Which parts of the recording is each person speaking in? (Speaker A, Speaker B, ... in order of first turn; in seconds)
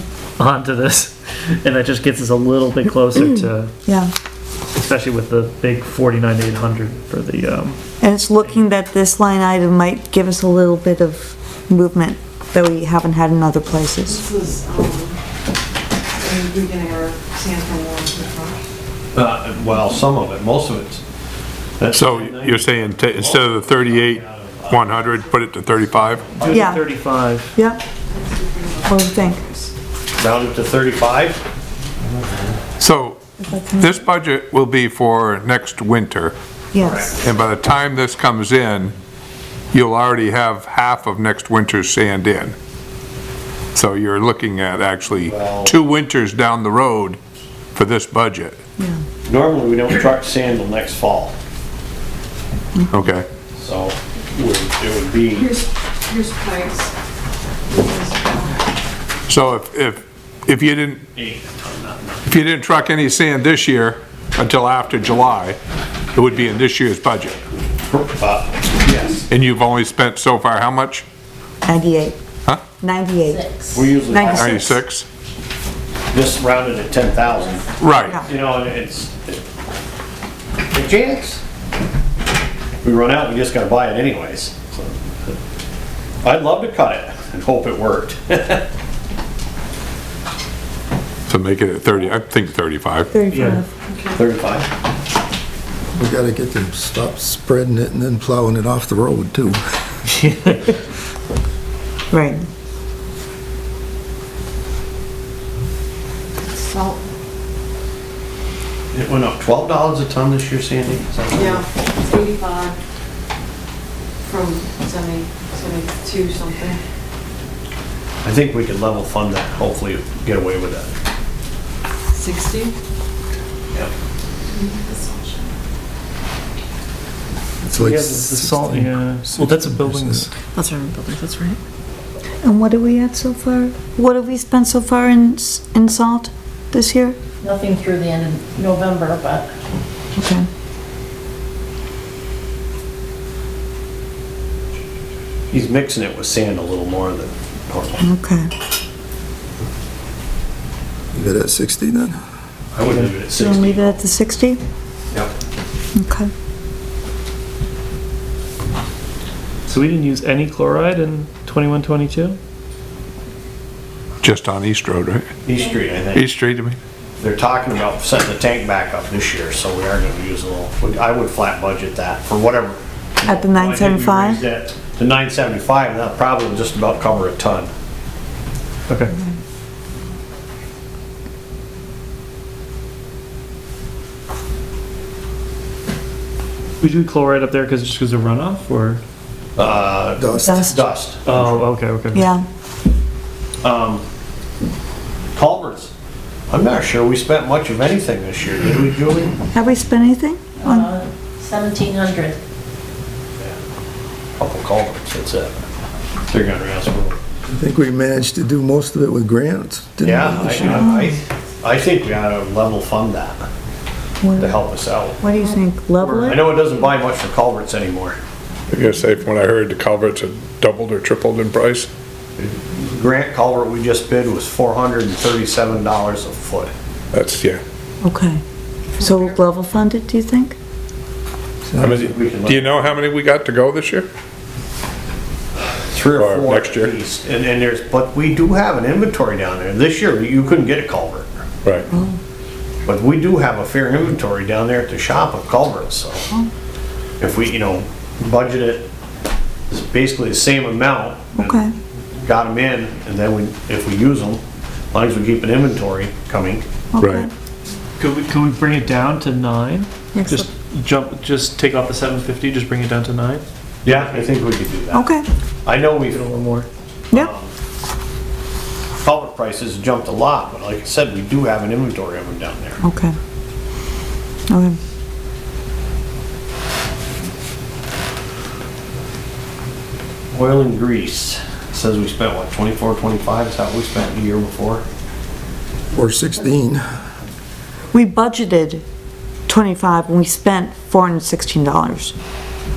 Speaker A: 0.4-3.7, 4.7-7.8, 26.4-27.6, 93.3-93.6, 100.2-100.7, 127.8-130.5, 152.8-153.1, 159.7-162.4, 178.9-179.1, 186.8-189.0, 191.2-192.3, 216.0-216.3, 258.0-264.1, 266.1-266.7
Speaker B: 3.1-4.1, 8.0-14.2, 26.5-26.8, 27.6-27.8, 28.9-29.5, 33.4-34.0, 36.7-37.1, 71.7-72.2, 72.7-73.4, 74.1-74.8, 78.0-78.2, 93.1-93.7, 102.1-102.5, 132.4-137.2, 140.2-140.5, 148.0-148.5, 153.3-154.6, 155.9-156.3, 173.2-174.5, 190.4-190.8, 192.1-192.4, 199.5-200.9, 210.7-211.2, 214.2-214.6, 215.2-216.5, 228.0-228.4, 229.0-230.6, 241.9-242.2, 251.4-251.7, 256.9-257.3, 260.1-260.5, 264.9-265.3, 272.8-273.2, 274.5-274.8, 287.9-288.8, 289.5-292.1
Speaker C: 14.3-15.0, 16.2-17.7, 114.3-115.8
Speaker D: 19.1-21.0, 21.8-25.0, 30.2-31.4, 36.8-37.1, 45.2-45.8, 49.3-51.3, 53.6-55.6, 61.1-62.2, 67.9-69.3, 73.7-74.4, 76.1-79.4, 80.7-81.4, 82.8-85.4, 86.2-88.7, 94.1-94.7, 108.9-111.7, 118.2-120.9, 145.5-148.1, 152.7-154.0, 165.4-166.3, 167.2-177.7, 189.6-191.4, 193.6-194.0, 195.3-195.9, 196.5-199.4, 204.4-205.5, 206.3-207.2, 210.0-213.4, 214.4-215.2, 216.2-218.2, 222.4-226.7, 231.8-232.8, 235.9-241.3, 242.9-246.3, 247.2-248.9, 249.7-251.7, 252.2-254.4, 254.9-256.6, 263.8-265.1, 265.6-266.2, 267.1-267.5, 269.0-272.8, 280.3-284.8
Speaker E: 21.9-26.3, 32.8-33.2, 33.8-36.3, 37.2-38.9, 39.7-42.5, 43.7-47.2, 47.8-48.6, 52.9-53.3, 59.3-61.1, 62.3-65.6, 66.1-67.4, 69.3-71.0, 74.2-75.0, 77.8-78.2, 91.3-93.1, 164.2-165.3, 166.1-166.8, 218.7-221.9, 227.1-227.6, 231.8-234.1, 236.1-236.9, 257.0-257.3
Speaker F: 73.3-74.5, 130.6-131.6, 137.4-139.5, 200.6-202.4
Speaker G: 96.0-99.6, 127.6-130.3, 151.1-152.2, 190.2-190.6, 207.5-210.9, 285.9-286.8